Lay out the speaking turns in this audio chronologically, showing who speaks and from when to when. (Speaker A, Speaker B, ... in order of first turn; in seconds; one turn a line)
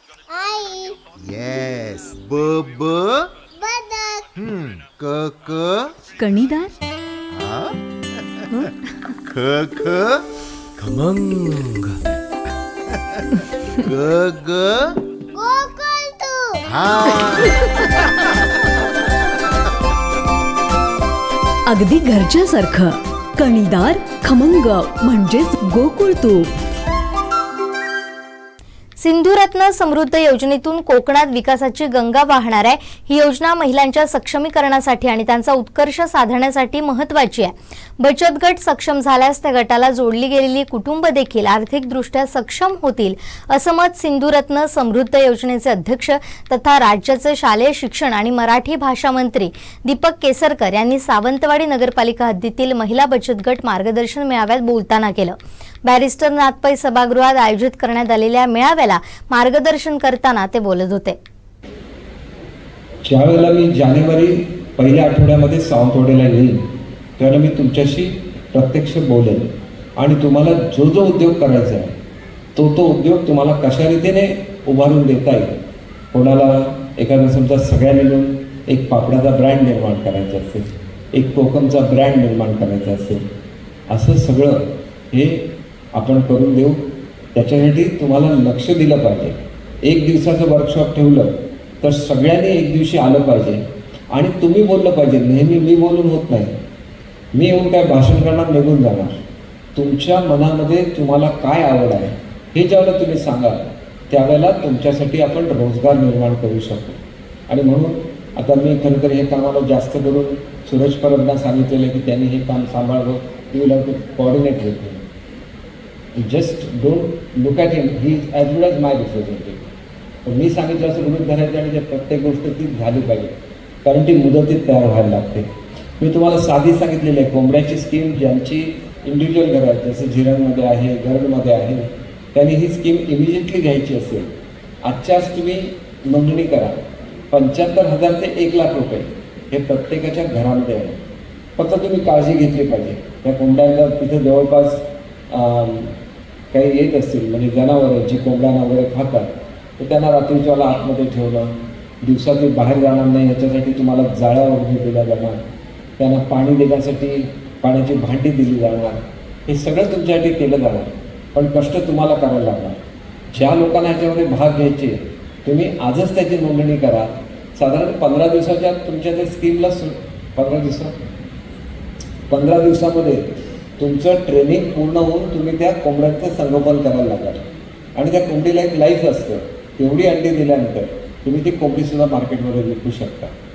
Speaker A: 0.3-1.0
Speaker B: 1.1-3.3
Speaker A: 3.6-4.2
Speaker B: 4.4-5.9
Speaker C: 6.2-6.8
Speaker B: 7.3-8.7
Speaker B: 9.2-10.3
Speaker B: 10.8-11.9
Speaker B: 12.9-13.2
Speaker B: 13.8-15.0
Speaker A: 15.3-16.6
Speaker B: 16.7-18.4
Speaker C: 21.7-26.5
Speaker D: 29.0-61.2
Speaker E: 63.0-66.7
Speaker E: 67.2-71.9
Speaker E: 72.5-75.5
Speaker E: 76.1-83.2
Speaker E: 83.9-86.8
Speaker E: 87.3-93.6
Speaker E: 94.1-96.5
Speaker E: 97.3-99.2
Speaker E: 99.7-107.0
Speaker E: 107.5-115.0
Speaker E: 116.2-119.7
Speaker E: 120.2-123.3
Speaker E: 123.8-125.5
Speaker E: 126.0-134.3
Speaker E: 134.8-136.8
Speaker E: 137.3-141.0
Speaker E: 141.6-145.9
Speaker E: 146.5-155.4
Speaker E: 156.0-162.8
Speaker E: 163.3-170.9
Speaker E: 172.3-177.4
Speaker E: 177.9-183.3